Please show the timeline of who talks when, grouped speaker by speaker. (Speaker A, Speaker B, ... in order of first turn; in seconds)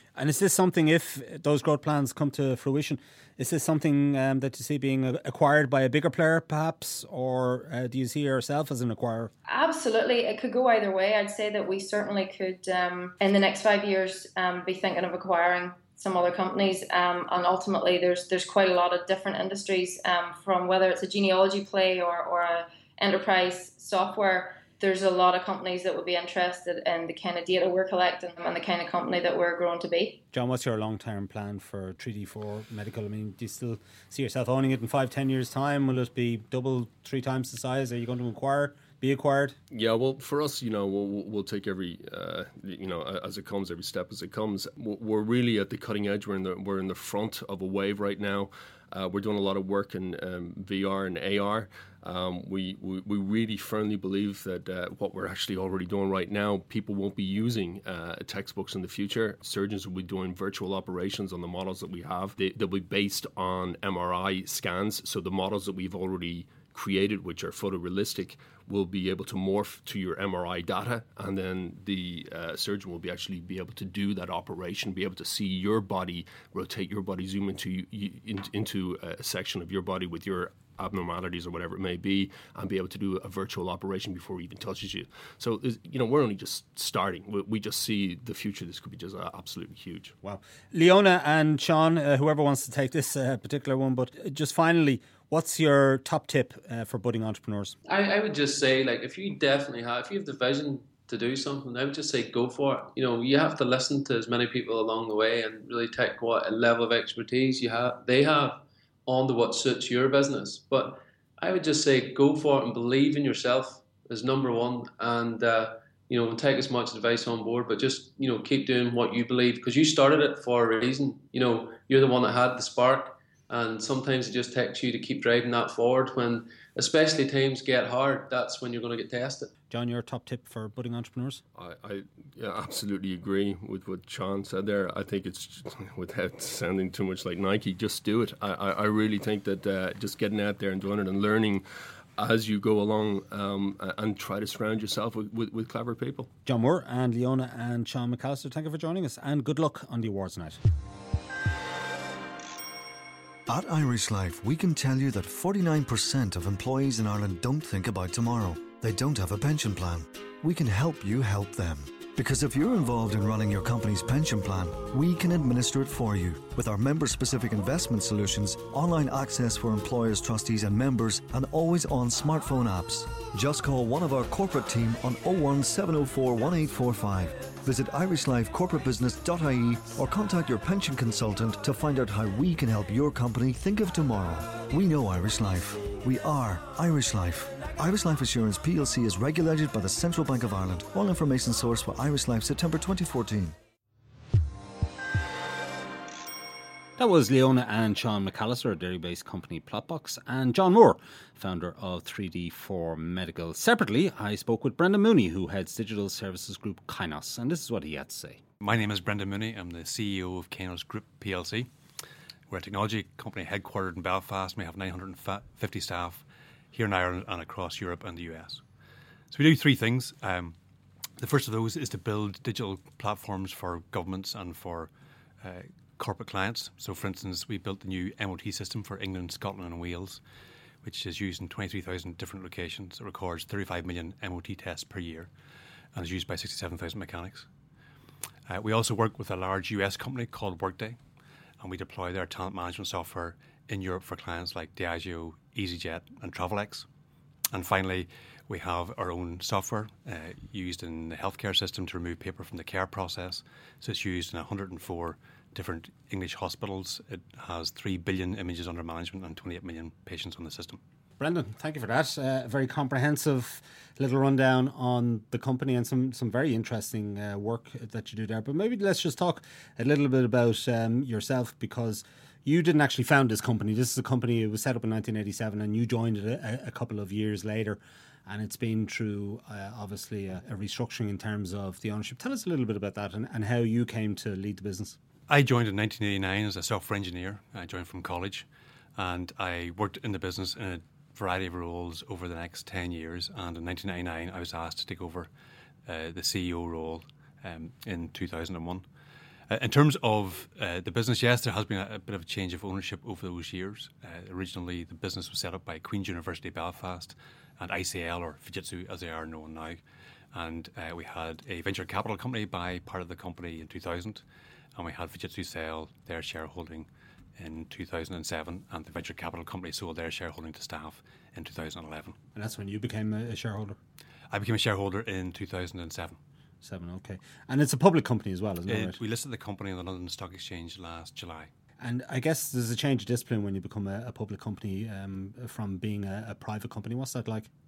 Speaker A: 0.1-9.3, 30.3-39.5, 90.2-97.8, 129.7-131.4, 146.4-150.6, 197.0-208.4, 261.2-285.0, 322.3-323.8, 326.6-329.0, 331.8-337.5
Speaker B: 9.5-30.2
Speaker C: 39.7-90.1, 131.5-141.6, 142.2-146.3
Speaker D: 97.8-129.5
Speaker E: 153.5-193.6
Speaker F: 208.6-211.7, 212.5-218.6, 219.3-220.6, 221.2-224.9, 225.4-230.2, 230.8-235.3, 235.9-237.5, 238.5-241.0, 241.6-246.8, 247.5-260.8, 285.3-295.3, 295.9-298.8, 299.5-309.8, 310.3-314.2, 314.7-322.2, 324.3-326.2, 328.7-331.5